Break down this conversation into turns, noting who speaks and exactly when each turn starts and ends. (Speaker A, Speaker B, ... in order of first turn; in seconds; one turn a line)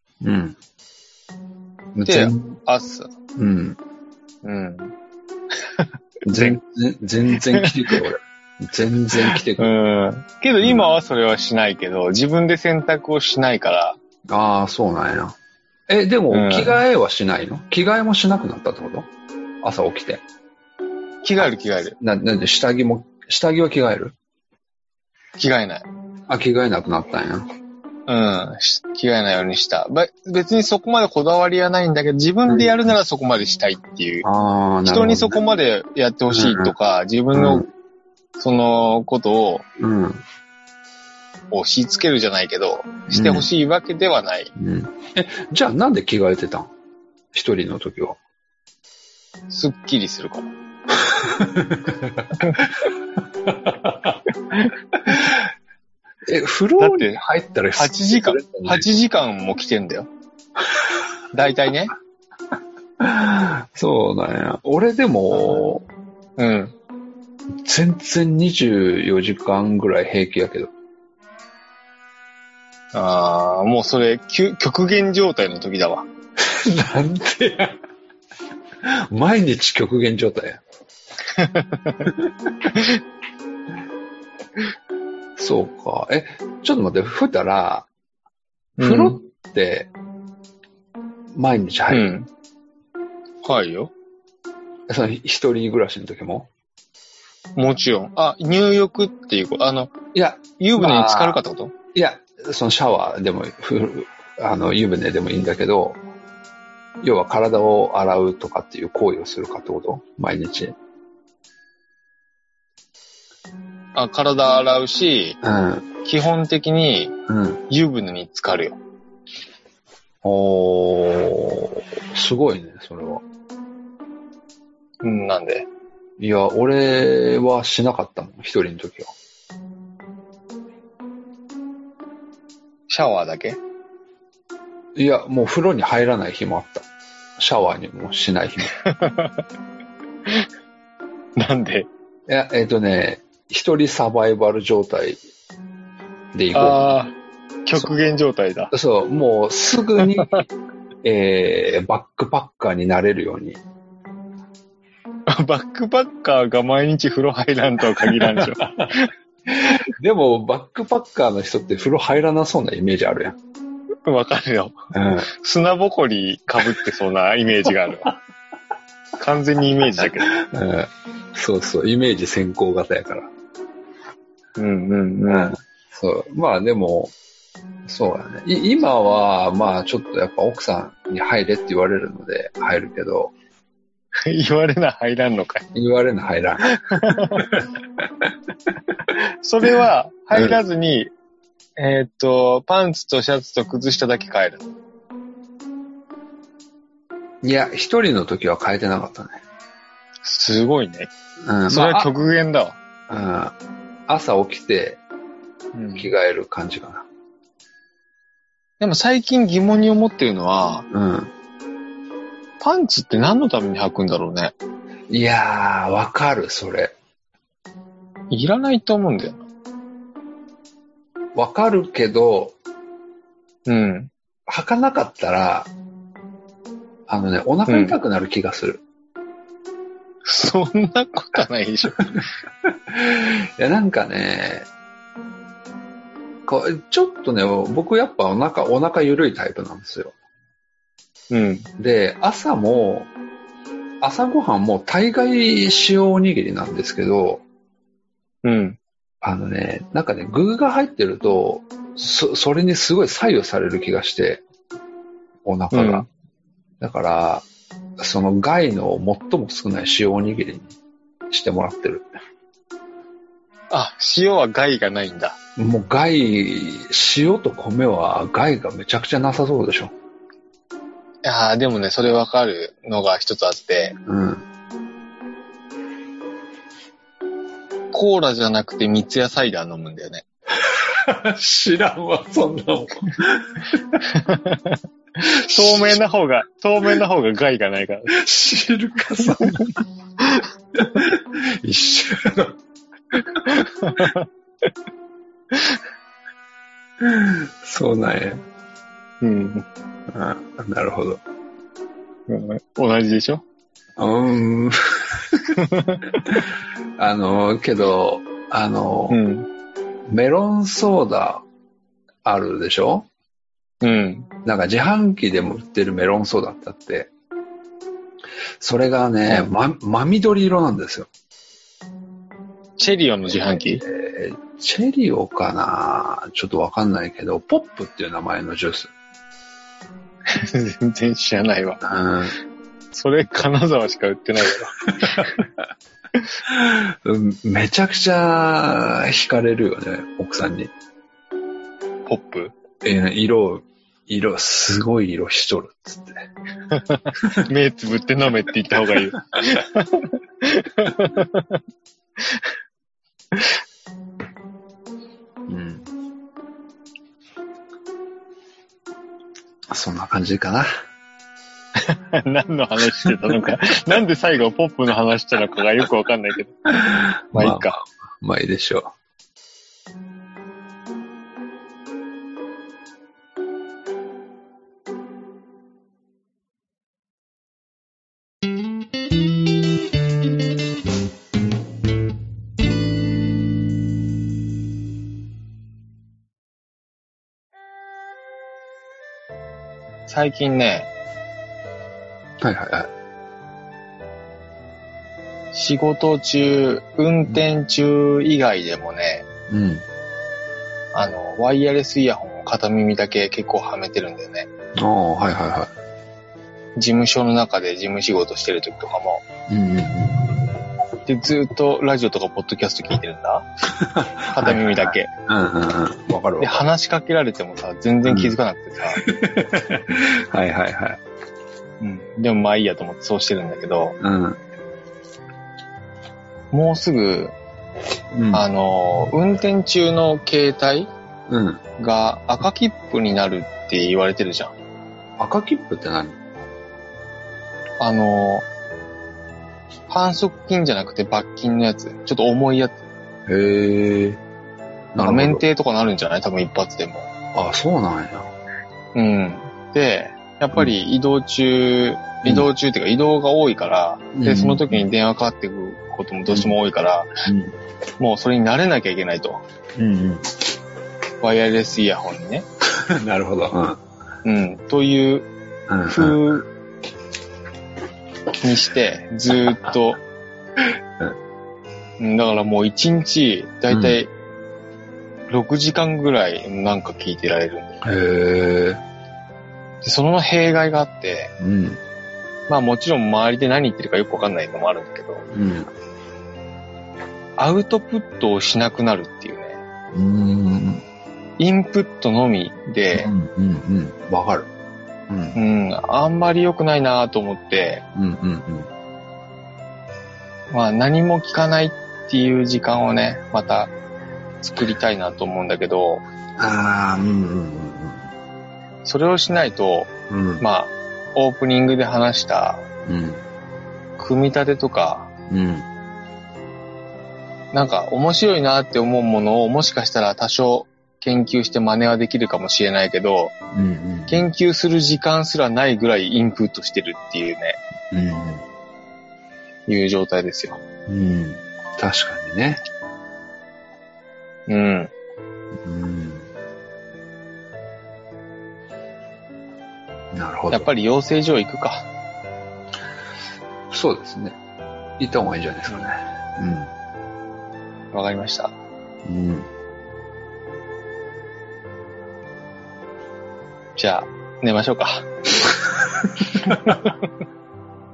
Speaker A: 0.2-0.6
Speaker A: 1.9-2.6
Speaker B: 2.0-3.1
Speaker A: 3.4-3.8
Speaker B: 4.4-4.9
Speaker B: 5.8-6.6
Speaker A: 6.2-9.7
Speaker B: 7.5-8.1
Speaker B: 9.2-14.0
Speaker A: 10.6-10.9
Speaker A: 14.3-15.4
Speaker A: 15.9-19.1
Speaker B: 16.3-16.8
Speaker A: 19.6-20.2
Speaker B: 21.2-21.9
Speaker A: 21.4-24.1
Speaker B: 25.4-25.9
Speaker A: 26.3-27.5
Speaker B: 28.1-34.2
Speaker A: 32.5-32.8
Speaker A: 34.2-35.4
Speaker B: 34.8-37.7
Speaker A: 36.3-36.7
Speaker A: 37.3-37.7
Speaker B: 38.4-39.6
Speaker A: 39.8-40.2
Speaker B: 41.5-44.5
Speaker A: 43.1-43.5
Speaker A: 44.5-46.7
Speaker A: 47.3-48.2
Speaker B: 49.5-50.5
Speaker A: 51.0-52.7
Speaker A: 53.5-54.2
Speaker A: 55.1-55.4
Speaker A: 56.2-58.8
Speaker B: 56.8-57.2
Speaker B: 57.7-60.1
Speaker B: 61.3-61.9
Speaker A: 63.0-65.9
Speaker B: 66.4-66.7
Speaker A: 67.6-70.7
Speaker B: 72.9-76.1
Speaker A: 76.4-77.8
Speaker A: 78.8-80.6
Speaker B: 81.3-82.1
Speaker A: 82.0-82.3
Speaker A: 85.4-87.9
Speaker B: 88.8-89.2
Speaker A: 88.8-89.9
Speaker A: 91.3-92.1
Speaker B: 91.9-92.3
Speaker B: 93.4-93.9
Speaker A: 94.9-96.5
Speaker B: 97.5-100.0
Speaker A: 100.1-101.4
Speaker B: 100.5-101.7
Speaker A: 101.9-106.0
Speaker A: 107.0-110.8
Speaker B: 114.0-115.4
Speaker A: 115.4-115.9
Speaker B: 116.0-117.1
Speaker A: 117.3-117.6
Speaker B: 117.7-118.8
Speaker A: 120.2-123.2
Speaker B: 125.0-125.7
Speaker A: 126.2-129.1
Speaker B: 132.9-133.6
Speaker A: 134.9-136.8
Speaker A: 137.4-138.7
Speaker B: 138.8-139.4
Speaker B: 141.4-141.9
Speaker A: 142.3-145.2
Speaker A: 146.3-146.9
Speaker B: 146.5-147.1
Speaker B: 147.7-148.7
Speaker A: 148.7-150.5
Speaker B: 150.0-150.4
Speaker A: 151.0-153.6
Speaker B: 155.3-159.1
Speaker A: 158.0-158.9
Speaker A: 159.5-163.4
Speaker B: 164.0-168.1
Speaker A: 164.9-165.3
Speaker B: 169.2-170.3
Speaker A: 170.3-173.3
Speaker B: 174.6-175.6
Speaker A: 175.3-177.1
Speaker A: 177.8-183.3
Speaker B: 184.2-185.7
Speaker A: 185.7-187.6
Speaker B: 186.7-187.6
Speaker B: 189.1-191.1
Speaker B: 191.8-194.7
Speaker A: 197.4-199.4
Speaker B: 200.2-201.1
Speaker A: 201.4-202.1
Speaker B: 201.7-202.8
Speaker A: 203.1-203.5
Speaker A: 204.1-205.0
Speaker B: 205.7-206.1
Speaker A: 205.9-207.1
Speaker B: 208.8-210.9
Speaker A: 210.9-211.3
Speaker B: 212.6-214.5
Speaker A: 215.1-216.9
Speaker B: 218.3-219.4
Speaker A: 221.3-222.5
Speaker B: 223.7-224.1
Speaker A: 224.5-225.7
Speaker A: 227.1-228.8
Speaker B: 227.7-228.0
Speaker B: 230.2-232.0
Speaker A: 232.6-234.7
Speaker A: 236.4-240.1
Speaker B: 241.3-241.7
Speaker A: 241.8-243.1
Speaker A: 244.0-247.4
Speaker B: 248.4-248.8
Speaker A: 249.2-254.4
Speaker A: 255.4-256.1
Speaker B: 255.7-256.1
Speaker A: 256.8-257.4
Speaker A: 258.0-260.7
Speaker A: 261.3-262.1
Speaker B: 263.7-265.4
Speaker A: 265.6-269.9
Speaker B: 271.2-274.0
Speaker A: 274.0-274.4
Speaker B: 277.9-280.2
Speaker A: 280.6-283.8
Speaker B: 284.1-288.1
Speaker A: 285.5-286.0
Speaker A: 288.1-289.7
Speaker A: 290.8-292.6
Speaker A: 293.2-294.0
Speaker B: 293.4-294.3
Speaker B: 295.5-295.8
Speaker A: 297.0-298.4
Speaker B: 299.2-299.6
Speaker A: 300.1-301.2
Speaker B: 302.3-303.4
Speaker A: 304.0-305.5
Speaker B: 305.6-306.0
Speaker A: 307.0-309.2
Speaker B: 309.1-309.5
Speaker A: 310.1-311.4
Speaker A: 312.2-313.1
Speaker B: 313.8-314.3
Speaker A: 314.4-317.1
Speaker A: 318.6-321.1
Speaker B: 322.8-323.8
Speaker A: 323.8-328.9
Speaker B: 330.3-331.8
Speaker A: 331.8-332.4
Speaker B: 332.9-335.3
Speaker A: 335.0-335.4
Speaker A: 336.5-340.7
Speaker B: 342.1-342.6
Speaker A: 342.8-346.3
Speaker B: 346.7-351.6
Speaker B: 353.3-353.6
Speaker A: 355.5-355.9
Speaker A: 359.7-360.7
Speaker B: 361.8-366.5
Speaker A: 363.0-363.5
Speaker A: 366.7-368.9
Speaker B: 367.3-367.8
Speaker B: 390.1-390.9
Speaker A: 392.4-392.9
Speaker B: 395.5-399.2
Speaker A: 399.5-399.8
Speaker B: 400.9-404.5
Speaker A: 404.8-405.7
Speaker B: 406.8-409.2
Speaker A: 409.5-410.3
Speaker B: 411.1-413.5
Speaker A: 413.8-416.6
Speaker B: 414.3-415.1
Speaker B: 416.4-419.0
Speaker A: 418.0-418.4
Speaker A: 419.0-421.0
Speaker B: 421.8-424.0
Speaker A: 424.0-424.4
Speaker B: 426.5-427.3
Speaker A: 428.1-428.4
Speaker B: 428.3-430.9
Speaker A: 431.3-431.6
Speaker B: 431.8-434.5
Speaker A: 435.2-436.2
Speaker B: 437.8-438.4
Speaker B: 439.9-442.8
Speaker A: 443.3-444.2
Speaker A: 444.9-445.4
Speaker B: 445.0-447.1
Speaker A: 447.3-448.3
Speaker B: 448.9-457.1
Speaker A: 454.1-454.9
Speaker A: 456.3-456.6
Speaker A: 457.2-457.6
Speaker B: 458.0-459.4
Speaker A: 459.8-460.3
Speaker B: 461.2-462.4
Speaker A: 462.8-463.8
Speaker B: 464.2-465.3
Speaker A: 465.7-466.2
Speaker B: 465.9-466.5
Speaker B: 468.4-470.0
Speaker B: 472.0-474.1
Speaker A: 473.7-474.0
Speaker B: 475.3-477.8
Speaker A: 477.8-478.8
Speaker B: 479.8-481.3
Speaker A: 481.4-481.8
Speaker B: 482.5-485.3
Speaker A: 485.3-485.7
Speaker B: 487.4-489.6
Speaker A: 489.9-490.8
Speaker B: 491.4-493.1
Speaker A: 492.9-494.5
Speaker A: 495.1-495.4
Speaker B: 495.3-497.8
Speaker A: 497.9-498.7
Speaker B: 500.5-503.7
Speaker B: 504.4-506.0
Speaker A: 506.4-508.1
Speaker B: 508.8-512.6
Speaker A: 510.1-510.4
Speaker A: 512.9-513.2
Speaker B: 514.0-515.1
Speaker A: 515.3-515.6
Speaker B: 517.5-523.3
Speaker A: 523.5-524.2
Speaker B: 524.1-527.6
Speaker A: 527.9-528.4
Speaker B: 529.7-530.6
Speaker A: 530.9-532.6
Speaker B: 534.5-534.9
Speaker A: 535.6-536.3
Speaker A: 540.1-540.7
Speaker B: 540.5-541.9
Speaker A: 543.7-544.4
Speaker A: 545.0-546.7
Speaker B: 547.9-548.5
Speaker A: 549.0-549.5
Speaker B: 553.8-555.1
Speaker A: 556.0-556.4
Speaker B: 556.4-557.0